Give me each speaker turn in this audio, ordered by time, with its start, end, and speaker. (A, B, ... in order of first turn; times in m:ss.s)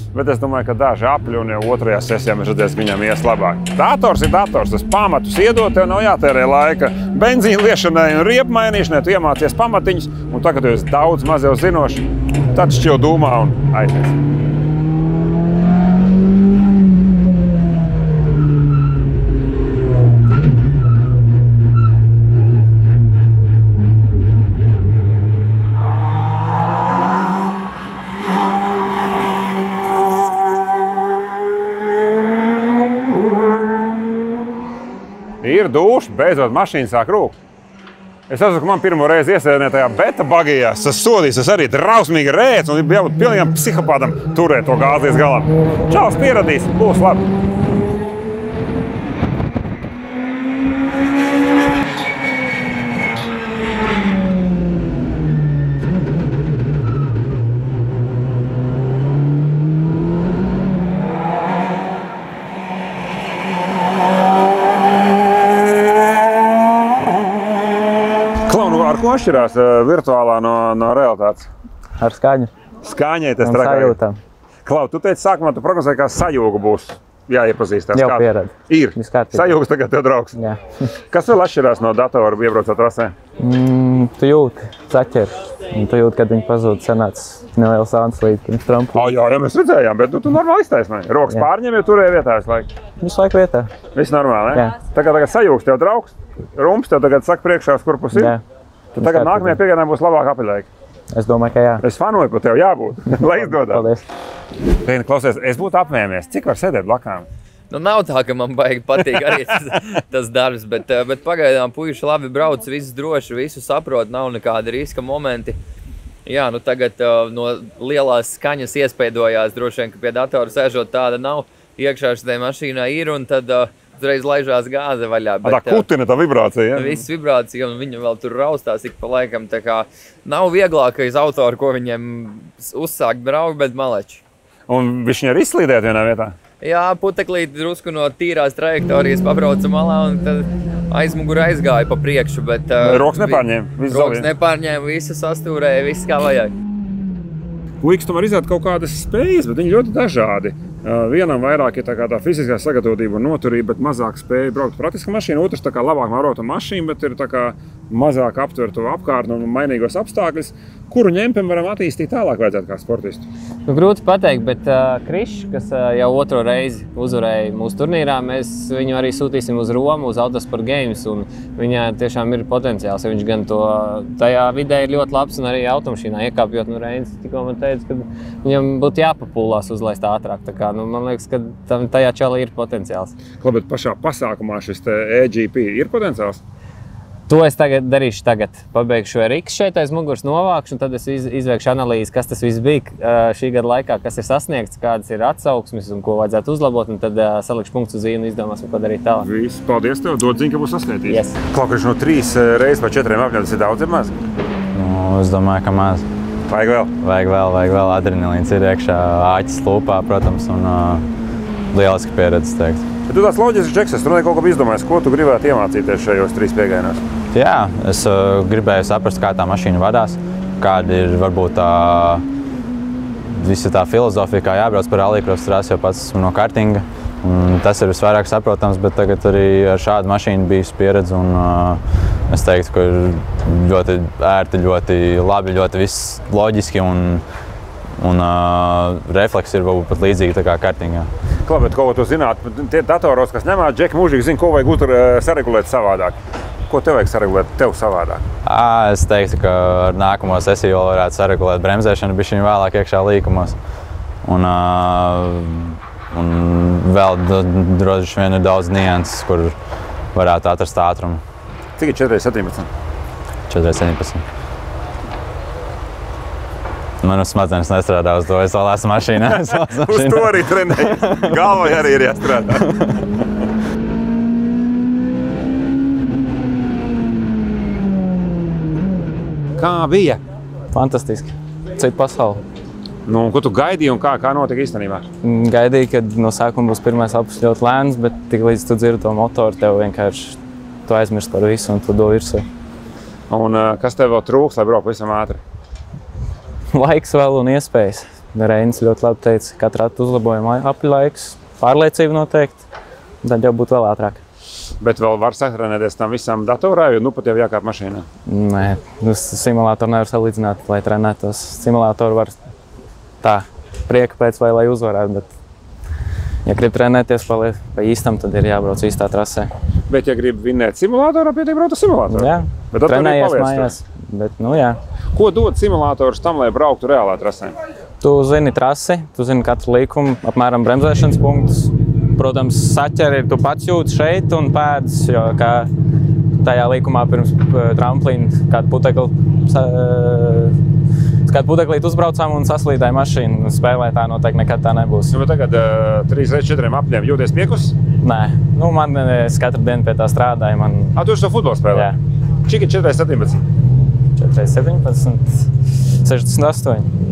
0:00.1-0:14.2 A
0:35.4-0:37.4 A
0:38.3-0:47.2 A
1:08.5-1:11.5 A
1:12.0-1:12.5 B
1:12.8-1:14.0 A
1:13.4-1:14.2 B
1:14.6-1:20.4 A
1:17.9-1:19.6 B
1:21.1-1:23.1 A
1:23.4-1:29.1 B
1:28.9-1:32.7 A
1:33.0-1:33.7 B
1:33.9-1:38.4 A
1:38.1-1:38.4 B
1:39.0-1:39.6 B
1:39.0-1:40.7 A
1:41.1-1:41.8 B
1:41.8-1:43.8 A
1:43.1-1:44.0 B
1:44.8-1:47.2 A
1:47.7-1:55.6 C
1:56.2-2:05.8 C
2:05.4-2:07.0 A
2:06.8-2:14.2 C
2:14.7-2:16.4 A
2:16.6-2:26.5 C
2:22.8-2:24.3 A
2:27.8-2:43.2 A
2:43.7-3:03.2 D
3:03.4-3:06.4 A
3:07.3-3:19.2 D
3:19.2-3:24.1 A
3:21.1-3:21.3 D
3:24.7-3:26.0 E
3:26.5-3:26.9 A
3:27.0-3:31.0 E
3:31.7-3:32.8 E
3:33.1-3:37.0 A
3:37.3-3:42.2 E
3:43.2-3:57.2 E
3:58.0-4:01.1 E
4:01.5-4:06.1 A
4:06.7-4:08.2 A
4:08.4-4:13.6 E
4:14.2-4:19.6 E
4:20.1-4:21.2 E
4:21.8-4:22.7 A
4:23.5-4:24.2 E
4:27.0-4:31.8 E
4:29.3-4:32.7 A
4:32.4-4:32.8 E
4:39.6-4:40.2 A
4:40.7-4:42.4 B
4:43.0-4:45.1 A
4:45.2-4:52.4 B
4:53.3-4:55.4 A
4:56.7-5:02.6 B
5:03.2-5:04.2 B
5:04.8-5:08.0 A
5:08.3-5:12.4 B
5:13.2-5:15.3 B
5:16.4-5:19.5 B
5:19.9-5:23.7 A
5:22.1-5:24.8 B
5:25.1-5:27.5 A
5:28.0-5:35.7 B
5:36.4-5:40.6 B
5:41.2-5:45.2 B
5:45.1-5:47.7 A
5:48.0-5:51.0 B
5:51.0-5:51.9 A
5:51.7-5:52.0 B
5:52.5-5:53.4 A
5:54.2-5:55.4 B
5:56.0-5:56.9 B